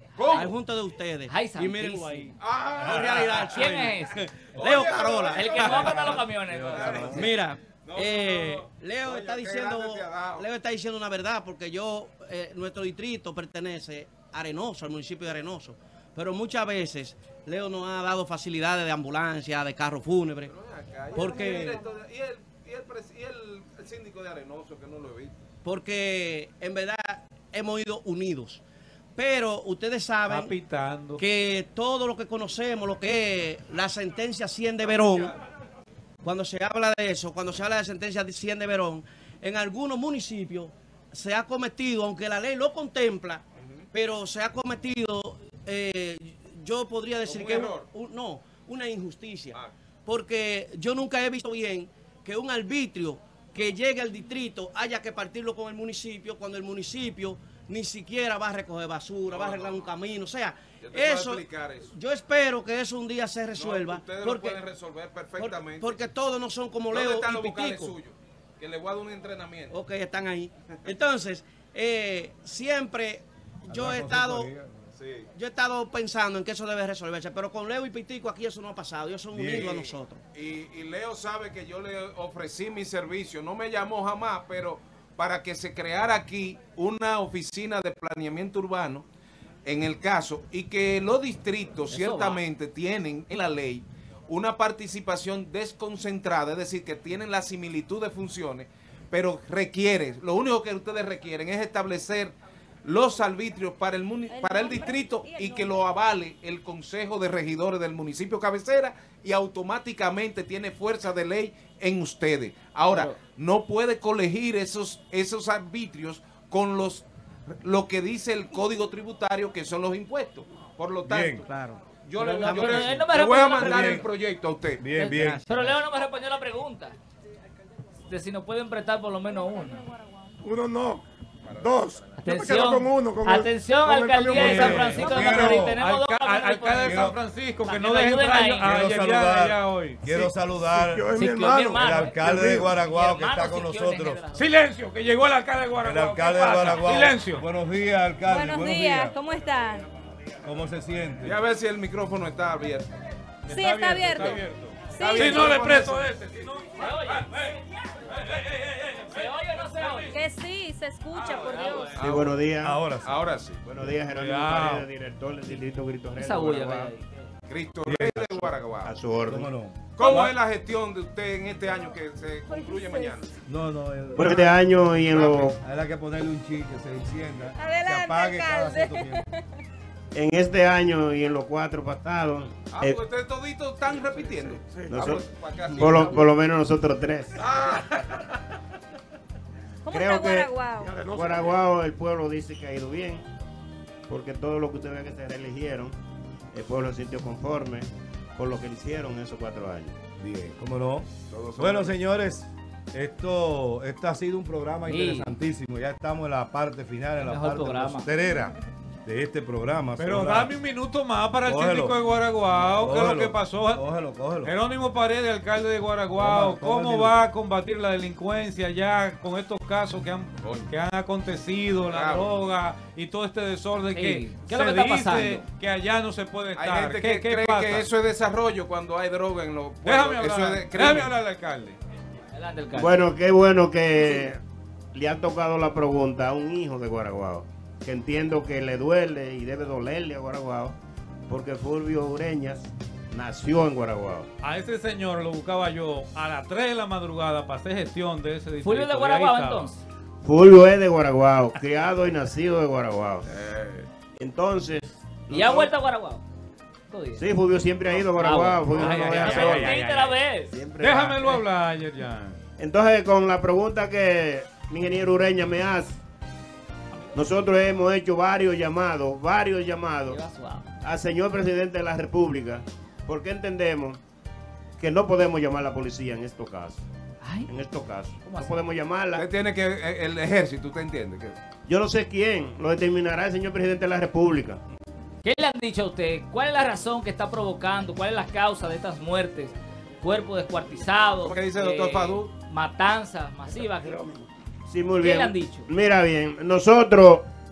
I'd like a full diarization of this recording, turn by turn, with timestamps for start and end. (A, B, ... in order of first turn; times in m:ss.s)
0:00.1-0:00.5 A
0:00.3-0:05.5 B
0:01.3-0:02.3 C
0:02.4-0:03.8 A
0:03.5-0:04.2 C
0:04.5-0:10.5 A
0:05.3-0:07.2 C
0:05.6-0:07.3 D
0:07.0-0:20.5 B
0:20.4-0:25.4 A
0:21.1-0:21.8 B
0:25.6-0:28.6 B
0:29.2-0:30.6 B
0:30.2-0:31.2 E
0:31.2-0:35.4 B
0:36.2-1:04.6 B
0:43.6-0:43.9 A
0:47.2-0:47.9 A
0:59.3-0:59.9 A
1:00.8-1:02.0 A
1:03.5-1:06.0 A
1:05.3-1:08.0 B
1:06.9-1:09.8 A
1:09.7-1:14.5 B
1:13.7-1:14.8 D
1:15.0-1:15.3 A
1:15.3-1:20.2 B
1:19.3-1:19.7 D
1:19.5-1:29.0 A
1:29.6-1:57.0 A
1:31.9-1:32.4 C
1:44.3-1:45.7 F
1:52.9-1:53.2 C
1:57.6-2:01.5 A
2:01.0-2:01.5 D
2:01.5-2:01.8 B
2:02.0-2:04.9 A
2:02.2-2:04.1 C
2:02.4-2:02.8 B
2:02.5-2:02.8 D
2:03.5-2:04.0 D
2:04.8-2:05.4 D
2:04.9-2:07.0 C
2:05.1-2:05.8 B
2:08.1-2:09.9 C
2:10.4-2:11.0 G
2:11.4-2:12.2 A
2:11.5-2:15.2 G
2:12.2-2:18.7 C
2:14.3-2:20.3 E
2:14.4-2:15.8 D
2:16.8-2:17.2 D
2:18.6-2:21.0 D
2:20.7-2:22.7 G
2:21.1-2:24.5 C
2:21.8-2:24.2 D
2:24.3-2:27.4 E
2:25.8-2:29.2 D
2:28.3-2:29.9 F
2:30.4-2:31.4 D
2:31.2-2:32.9 A
2:33.4-2:37.5 E
2:33.5-2:34.4 F
2:34.9-2:35.6 F
2:35.0-2:36.1 A
2:36.8-2:37.3 C
2:38.1-2:40.2 E
2:39.1-2:40.2 C
2:40.1-2:41.9 F
2:41.1-2:42.1 E
2:42.0-2:42.8 H
2:42.0-2:43.2 D
2:43.0-2:43.6 A
2:43.6-2:46.9 H
2:44.0-2:44.8 E
2:46.2-2:47.1 C
2:47.5-2:48.9 A
2:47.8-2:48.6 D
2:48.8-2:49.5 H
2:49.3-2:50.3 D
2:49.9-2:53.3 A
2:52.5-2:53.2 F
2:53.5-2:54.5 D
2:54.2-2:55.6 H
2:55.1-2:55.4 A
2:55.2-2:59.2 D
2:57.6-2:59.3 F
3:00.1-3:03.0 H
3:02.7-3:06.3 A
3:04.0-3:05.1 G
3:04.9-3:07.4 H
3:07.4-3:08.2 A
3:09.8-3:10.9 F
3:09.9-3:13.2 H
3:10.8-3:11.5 G
3:14.1-3:16.0 H
3:16.5-3:20.0 H
3:20.2-3:30.5 D
3:21.3-3:21.9 A
3:24.9-3:25.3 C
3:27.2-3:28.1 C
3:30.0-3:33.8 E
3:31.4-3:32.0 D
3:32.8-3:34.5 D
3:34.4-3:47.9 E
3:36.2-3:37.2 D
3:40.4-3:40.7 A
3:41.9-3:42.4 A
3:43.9-3:45.4 C
3:46.5-3:51.1 A
3:49.8-3:51.8 E
3:52.3-3:53.0 C
3:52.7-3:54.4 H
3:54.9-4:00.8 H
4:01.3-4:04.3 H
4:04.4-4:09.7 E
4:08.6-4:09.8 C
4:10.2-4:13.2 H
4:13.3-4:13.9 A
4:14.2-4:15.7 H
4:15.3-4:16.2 C
4:16.9-4:17.3 C
4:17.2-4:19.7 H
4:18.1-4:20.5 C
4:18.7-4:20.2 E
4:20.5-4:21.4 H
4:20.8-4:22.4 E
4:22.6-4:26.0 H
4:27.1-4:30.2 H
4:30.0-4:30.7 C
4:30.8-4:34.0 H
4:34.8-4:36.8 H
4:37.2-4:37.5 C
4:37.5-4:39.3 H
4:38.2-4:38.6 C
4:39.1-4:41.4 A
4:41.7-4:44.6 H
4:45.2-4:54.1 C
4:51.2-4:52.3 A
4:54.7-4:57.2 H
4:55.0-4:55.7 C